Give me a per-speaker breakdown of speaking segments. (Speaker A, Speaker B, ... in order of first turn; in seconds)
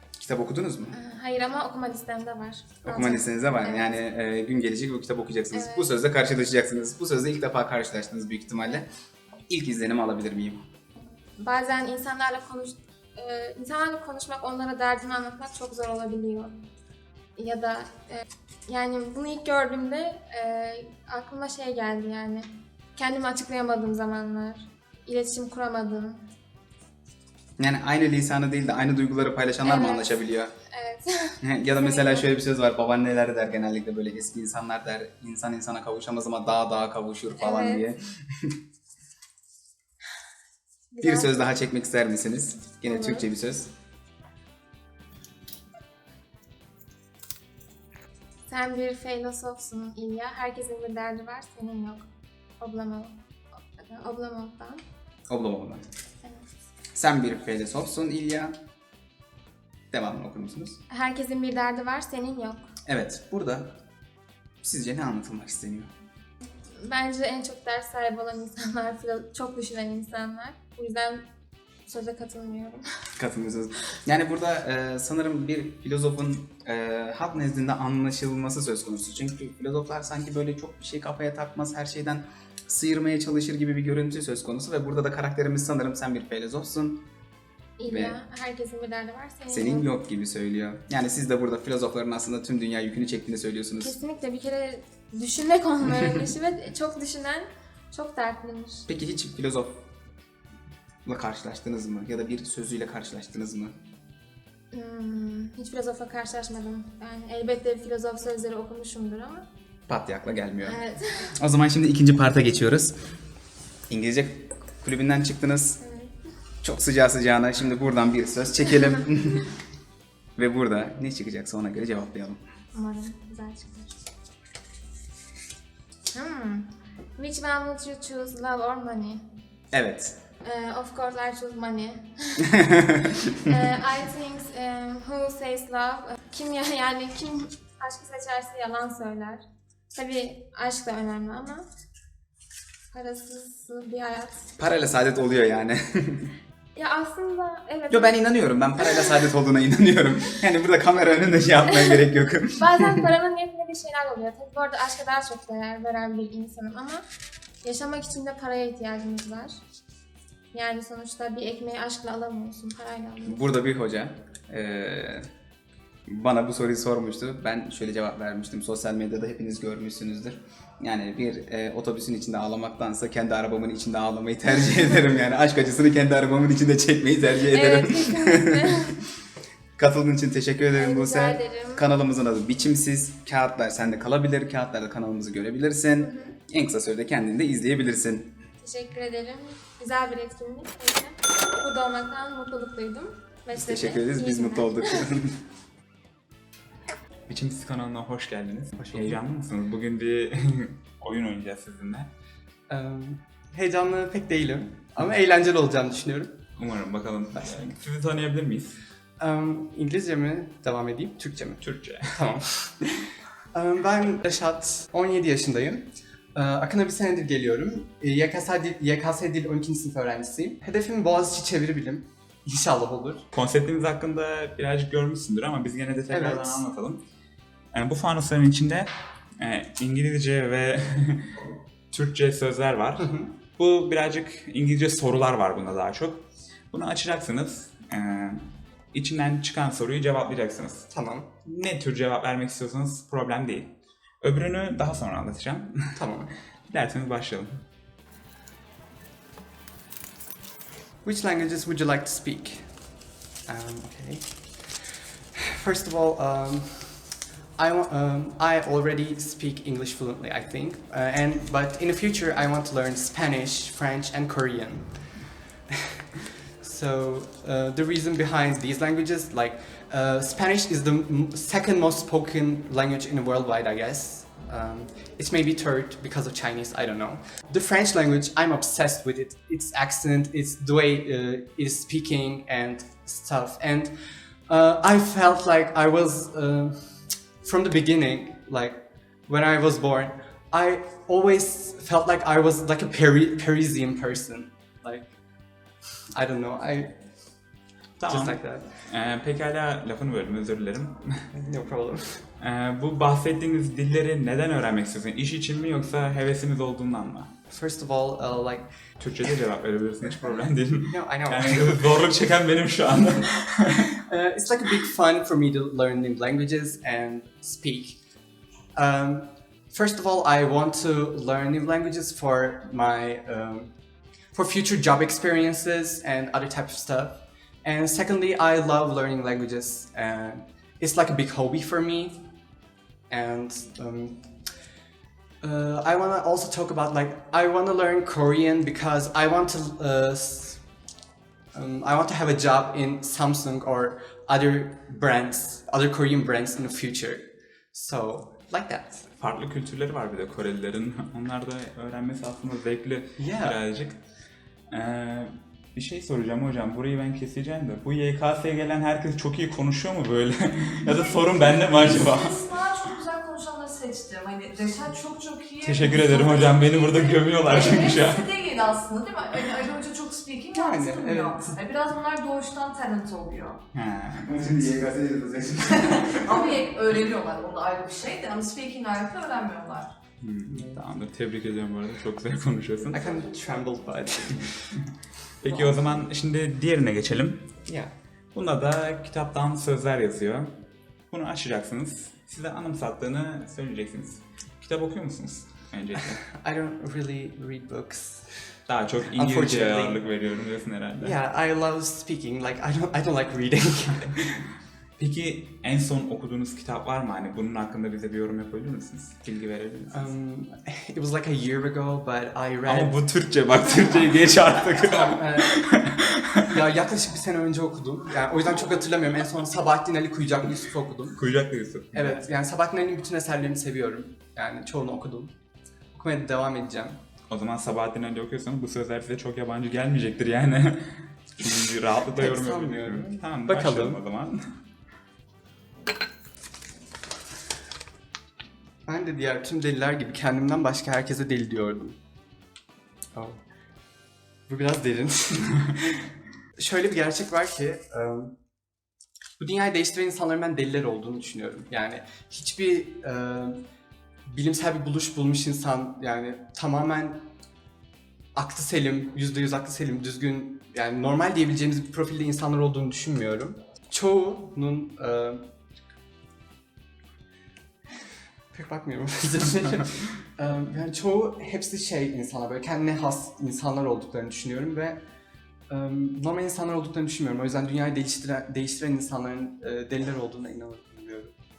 Speaker A: 0.2-1.0, 2.8-8.9, 9.5-10.6, 27.6-30.5, 31.4-38.5, 41.0-43.7, 55.3-55.8, 56.9-58.5, 59.9-60.8, 62.9-63.8, 64.6-65.9, 73.2-87.0, 87.8-88.2, 89.5-94.0, 98.9-99.8, 101.0-103.7, 109.9-113.0, 113.9-115.8, 116.6-119.5, 120.3-122.4, 129.7-130.2, 132.5-133.1, 144.6-146.3, 147.9-153.1, 163.2-165.3, 166.1-179.0, 179.8-188.3, 193.5-195.4, 374.1-376.4
Speaker B: 0.9-4.0, 5.5-5.9, 11.4-16.6, 17.4-26.2, 29.6-32.3, 37.4-37.8, 40.9-41.5, 42.8-43.3, 48.5-52.0, 52.6-53.2, 53.7-54.8, 60.9-62.7, 66.7-71.2, 71.8-72.8, 87.8-89.9, 93.8-98.8, 104.7-109.5, 110.6-111.3, 115.8-116.2, 122.7-124.0, 126.1-129.2, 130.4-132.5, 133.4-139.4, 139.9-141.6, 142.9-144.5, 146.7-148.2, 148.8-149.2, 152.6-157.0, 157.6-159.5, 160.5-163.4, 177.5-179.0, 180.7-181.8, 186.0-186.3, 188.6-195.1
Speaker C: 197.3-202.1, 206.6-208.8, 211.6-212.3, 223.3-227.0, 227.7-231.3, 231.9-240.8, 241.4-246.0, 246.7-247.6, 298.0-301.2, 302.4-307.3, 309.0-313.9, 349.2-354.0, 354.7-362.7, 365.6-368.3, 373.7-374.2, 380.2-383.0, 385.4-387.4, 388.3-390.5, 391.1-396.2, 398.7-401.2, 405.0-410.1, 412.6-416.5, 421.1-422.2, 427.3-434.5
Speaker D: 198.8-199.2, 202.7-206.4, 207.4-207.7, 209.2-223.2, 226.1-226.6, 233.0-233.3, 240.9-241.3, 245.9-246.3, 251.0-265.8, 266.6-295.1, 296.1-297.0, 298.1-298.8, 301.3-302.2, 307.5-308.7, 310.9-312.1, 314.0-318.0, 318.7-323.7, 324.3-332.3, 333.1-334.6, 335.4-340.7, 341.5-349.1, 353.2-353.6, 370.5-371.6, 380.5-380.8, 382.9-384.8, 385.4-386.0, 387.6-387.9, 396.3-400.1, 401.0-404.4, 409.9-413.0, 415.1-415.6, 416.5-421.2, 421.9-425.3, 425.9-427.0, 432.1-434.0, 438.9-442.0, 443.1-443.4, 444.5-445.7, 446.6-448.4, 449.4-453.6, 454.3-457.3, 458.3-465.4, 468.5-475.0, 475.7-481.3
Speaker E: 360.9-373.6, 376.1-379.9, 383.2-383.5